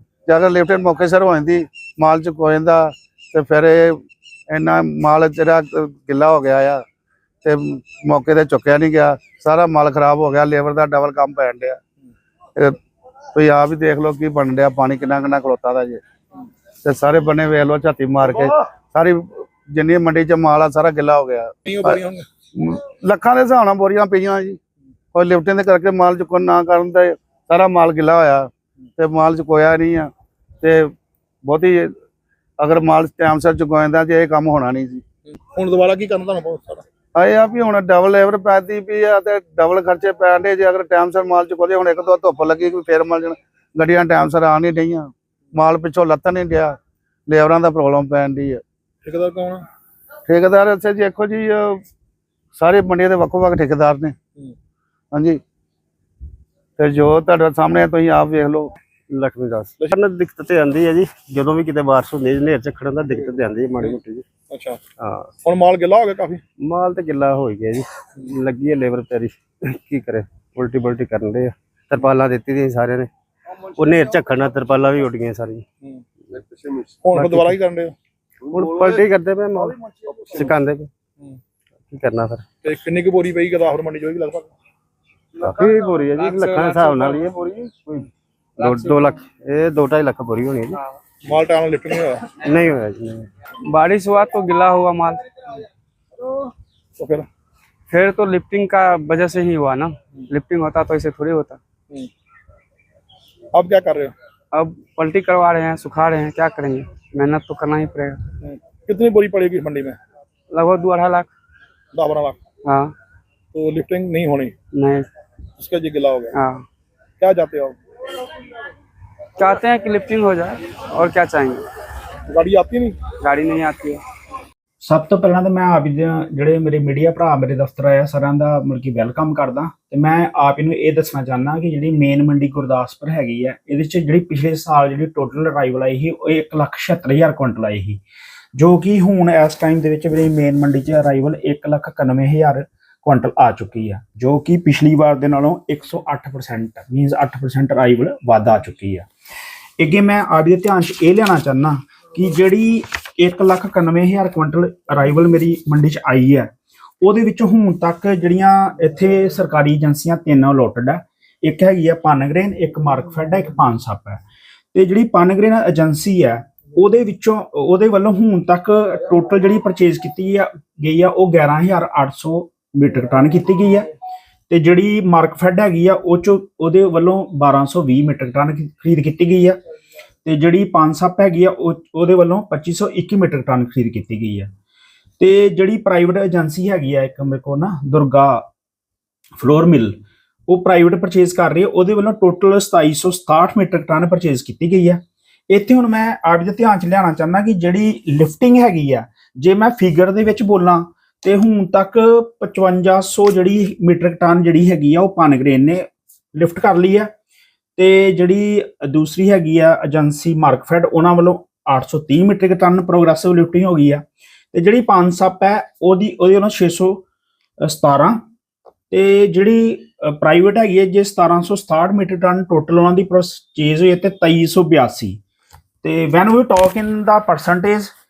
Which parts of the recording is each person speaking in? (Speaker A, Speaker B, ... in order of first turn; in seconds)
Speaker A: 0.3-4.0, 4.5-6.8, 7.4-11.8, 13.3-16.0, 16.8-22.0, 22.6-24.6, 25.1-28.4, 29.0-30.1, 30.6-30.9, 31.4-31.9, 32.6-35.0, 37.1-46.7, 47.3-48.6, 50.2-51.8, 52.5-54.1, 55.1-55.4, 56.8-58.7
Speaker B: 21.6-22.2, 35.3-36.8, 49.0-49.6, 64.5-64.8, 65.4-66.4, 77.0-77.9, 80.1-80.4, 82.6-84.5, 91.2-92.3, 97.0-97.3, 103.5-104.1, 108.4-110.0, 111.9-112.4, 113.5-114.5, 115.6-116.3, 117.2-117.8, 122.3-123.0
Speaker C: 59.1-64.3, 65.0-65.3, 66.6-75.6, 76.3-77.5, 78.5-79.8, 80.3-80.9, 81.9-82.4, 85.4-90.8, 92.4-93.3
Speaker D: 86.2-87.2, 88.6-89.1, 93.7-95.2, 97.9-101.6, 104.5-108.2, 110.5-111.3, 112.6-112.9, 114.7-115.1, 116.3-116.6, 119.4-121.6, 123.2-124.0
Speaker E: 124.8-138.0, 138.6-149.1, 149.8-156.5, 157.0-164.2, 164.7-173.9, 174.5-179.6, 180.2-184.5, 185.2-188.4, 189.4-207.1, 207.8-214.0, 214.5-217.0, 217.6-218.2, 218.9-225.2, 225.8-227.9